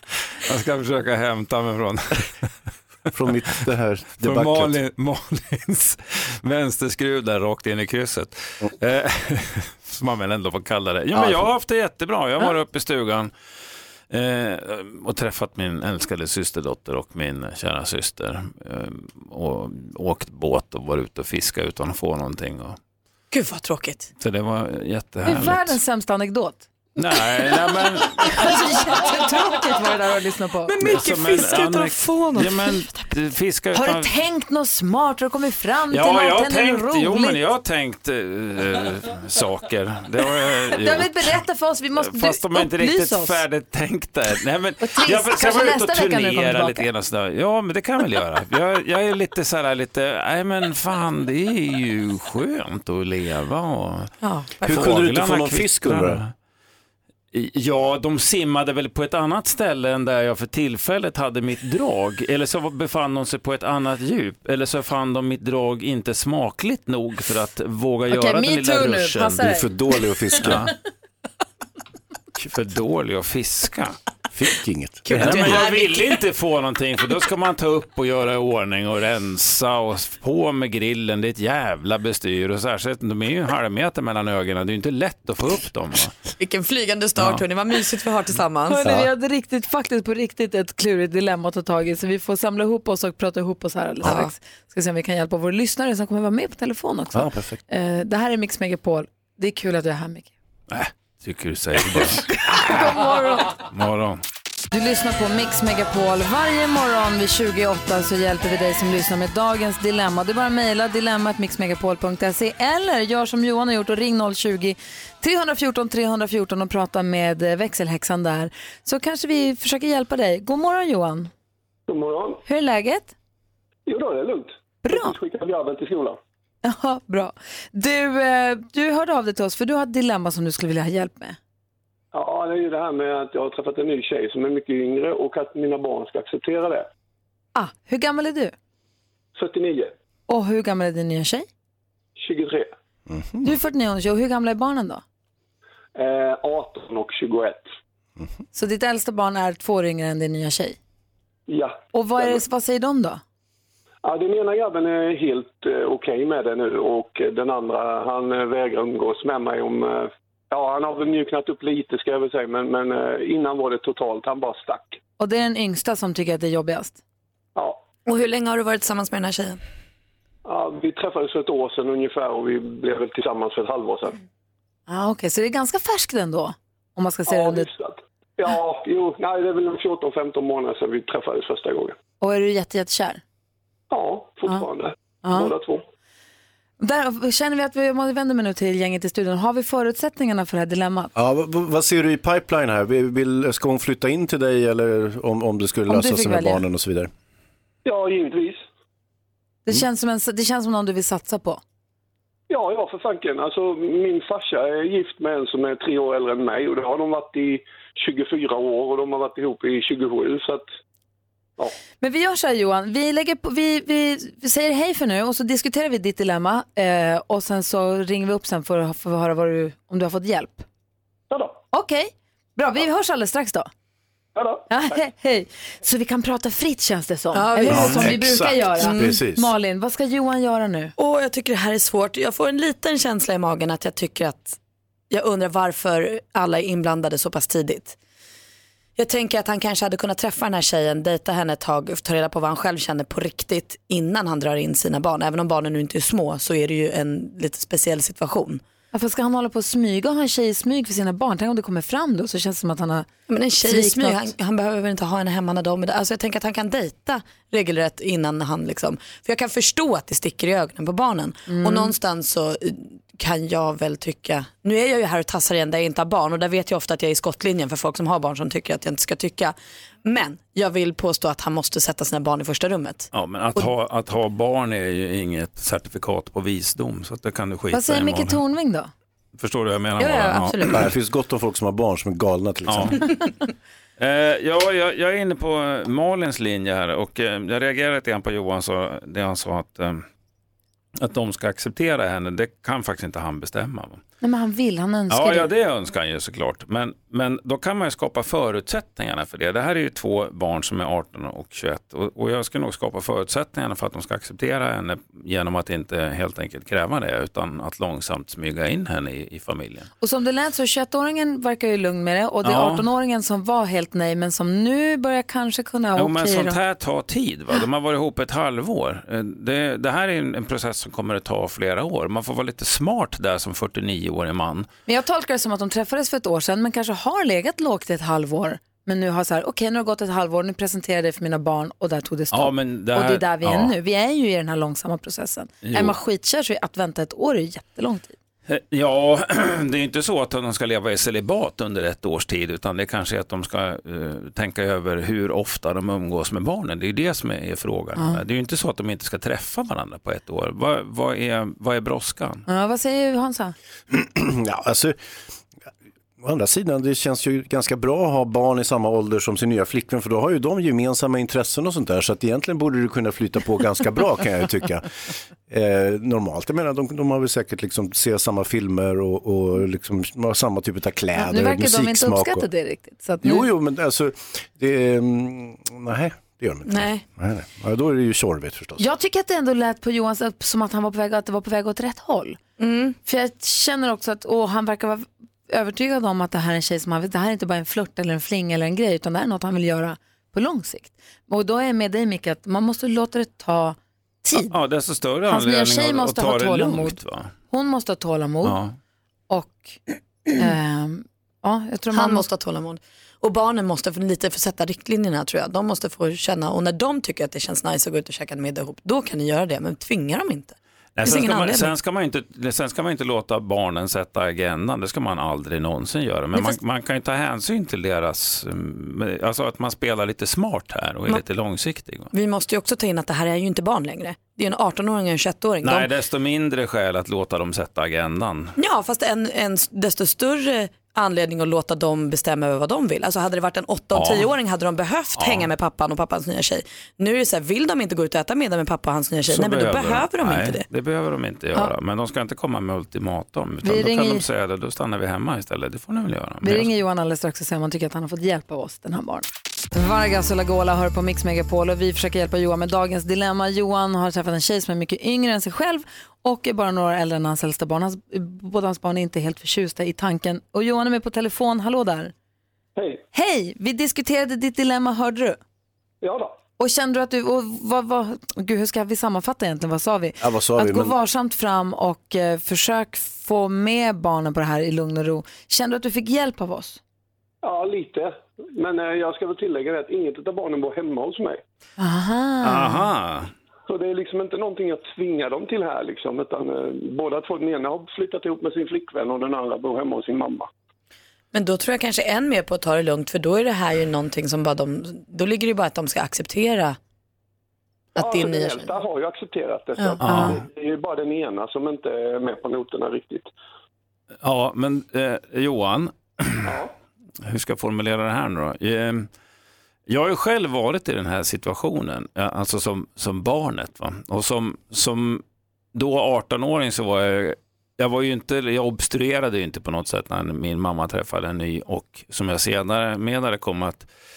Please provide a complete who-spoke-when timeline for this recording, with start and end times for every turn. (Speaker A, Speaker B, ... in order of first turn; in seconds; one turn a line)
Speaker A: 0.5-2.5
Speaker B: 3.1-4.8
Speaker A: 4.2-13.3
Speaker B: 11.2-11.5
Speaker A: 14.1-22.8
Speaker C: 23.3-24.1
Speaker A: 24.2-25.8
Speaker D: 25.2-26.7
Speaker A: 27.0-28.4
Speaker D: 28.2-30.7
Speaker C: 30.7-33.1
Speaker A: 30.8-34.1
Speaker D: 33.7-37.4
Speaker A: 35.9-41.4
Speaker D: 40.8-43.4
Speaker A: 42.0-54.1
Speaker D: 44.8-46.9
Speaker A: 54.6-56.3
Speaker B: 54.6-56.2
Speaker A: 57.3-69.5
Speaker D: 68.1-69.7
Speaker B: 69.4-70.7
Speaker D: 70.3-70.6
Speaker A: 70.4-70.7
Speaker A: 72.4-74.0
Speaker B: 74.3-75.7
Speaker C: 75.1-76.2
Speaker A: 75.1-86.2
Speaker C: 86.4-89.0
Speaker D: 88.7-100.3
Speaker C: 94.0-94.3
Speaker B: 97.1-97.6
Speaker A: 100.7-102.8
Speaker D: 102.7-103.5
Speaker C: 102.9-103.3
Speaker A: 103.6-104.2
Speaker D: 104.7-121.3
Speaker E: 121.9-122.4
Speaker D: 122.5-123.1
Speaker E: 123.9-126.2
Speaker D: 124.8-125.2
Speaker D: 126.6-131.4
Speaker E: 132.1-136.9
Speaker D: 137.6-138.5
Speaker E: 139.4-139.9
Speaker D: 140.3-141.5
Speaker E: 142.2-142.7
Speaker B: 143.1-143.4
Speaker D: 143.4-145.0
Speaker E: 146.0-147.7
Speaker D: 148.5-150.8
Speaker E: 151.5-152.4
Speaker D: 151.9-153.2
Speaker E: 154.0-165.0
Speaker D: 165.2-167.0
Speaker C: 168.1-169.6
Speaker E: 170.4-174.2
Speaker D: 174.9-177.7
Speaker E: 177.3-181.9
Speaker D: 182.2-183.2
Speaker E: 183.9-185.8
Speaker D: 185.2-185.5
Speaker D: 186.8-191.1
Speaker B: 191.2-197.1
Speaker D: 195.9-196.7
Speaker E: 197.8-198.6
Speaker D: 199.7-201.6
Speaker E: 202.5-210.6
Speaker D: 212.0-220.7
Speaker E: 221.3-221.6
Speaker D: 221.7-223.7
Speaker E: 224.3-224.7
Speaker D: 224.7-230.9
Speaker C: 227.3-228.2
Speaker B: 227.7-229.5
Speaker C: 228.8-229.2
Speaker C: 231.0-234.6
Speaker C: 235.1-238.0
Speaker C: 239.0-248.6
Speaker D: 248.9-253.1
Speaker C: 253.3-273.7
Speaker D: 253.6-254.3
Speaker D: 261.5-261.9
Speaker A: 273.1-278.4
Speaker D: 277.7-278.9
Speaker A: 279.4-280.8
Speaker C: 280.0-280.9
Speaker B: 280.7-283.0
Speaker A: 282.7-283.0
Speaker A: 284.0-290.0
Speaker A: 291.0-294.0
Speaker D: 294.2-295.5
Speaker A: 295.1-309.9
Speaker D: 310.0-316.6
Speaker A: 312.4-312.9
Speaker A: 316.0-324.7
Speaker D: 324.9-338.2
Speaker A: 332.3-333.8
Speaker A: 335.6-336.0
Speaker A: 338.5-352.4
Speaker D: 348.0-348.2
Speaker D: 352.5-353.6
Speaker B: 353.9-355.0
Speaker B: 356.2-364.9
Speaker B: 365.5-372.5
Speaker D: 371.2-373.5
Speaker B: 373.2-378.9
Speaker C: 376.7-377.0
Speaker D: 378.8-382.4
Speaker C: 382.6-383.0
Speaker D: 383.1-394.6
Speaker A: 394.3-397.3
Speaker D: 395.3-397.0
Speaker D: 397.5-398.6
Speaker A: 398.4-398.8
Speaker D: 399.3-399.8
Speaker D: 400.4-402.2
Speaker C: 401.9-411.8
Speaker A: 411.0-422.1
Speaker C: 416.3-416.6
Speaker C: 422.1-425.9
Speaker A: 425.6-428.5
Speaker C: 428.6-440.7
Speaker A: 433.9-434.3
Speaker A: 435.2-435.5
Speaker A: 439.3-446.7
Speaker D: 443.6-444.2
Speaker D: 446.4-462.1
Speaker E: 462.8-463.0
Speaker D: 463.1-465.4
Speaker E: 466.0-466.4
Speaker D: 466.6-476.8
Speaker B: 470.2-471.0
Speaker E: 477.4-481.4
Speaker D: 481.8-482.9
Speaker A: 482.4-483.3
Speaker E: 483.7-490.5
Speaker C: 491.3-496.8
Speaker E: 498.0-503.3
Speaker C: 498.0-498.7
Speaker A: 500.0-500.3
Speaker D: 500.1-500.4
Speaker A: 504.2-506.5
Speaker E: 506.5-506.7
Speaker A: 507.2-509.1
Speaker A: 509.9-515.2
Speaker A: 515.7-523.9